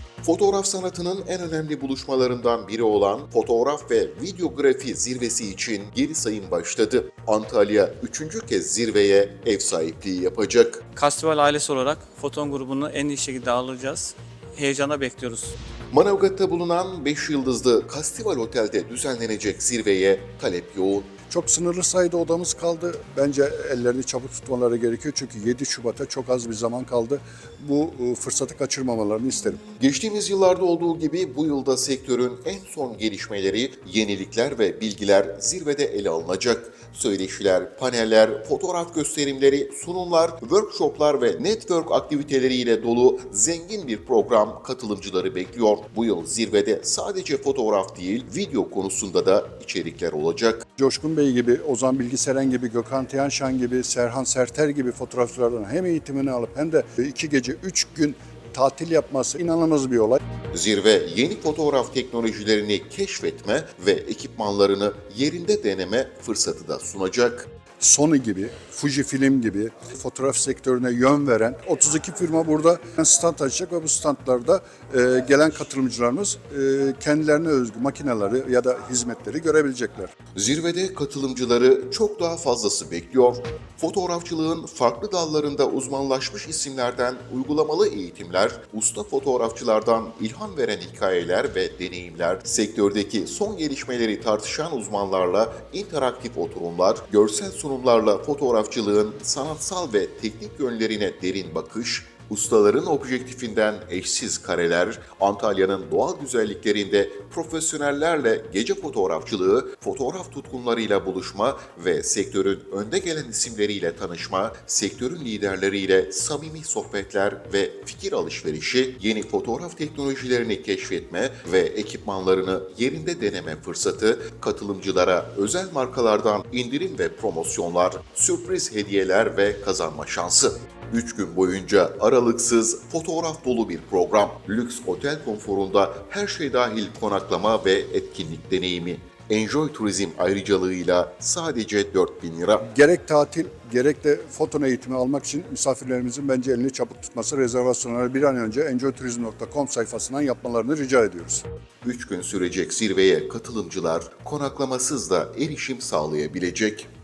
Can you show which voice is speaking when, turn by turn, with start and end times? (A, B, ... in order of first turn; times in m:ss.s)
0:00.2-0:10.8 A
0:11.0-0:15.6 B
0:15.9-0:21.1 A
0:21.3-0:29.6 C
0:29.8-0:50.7 A
0:50.8-1:00.2 C
1:00.5-1:07.5 A
1:07.8-1:20.1 C
1:20.4-2:22.7 A
2:22.6-2:31.4 C
2:31.8-2:36.9 A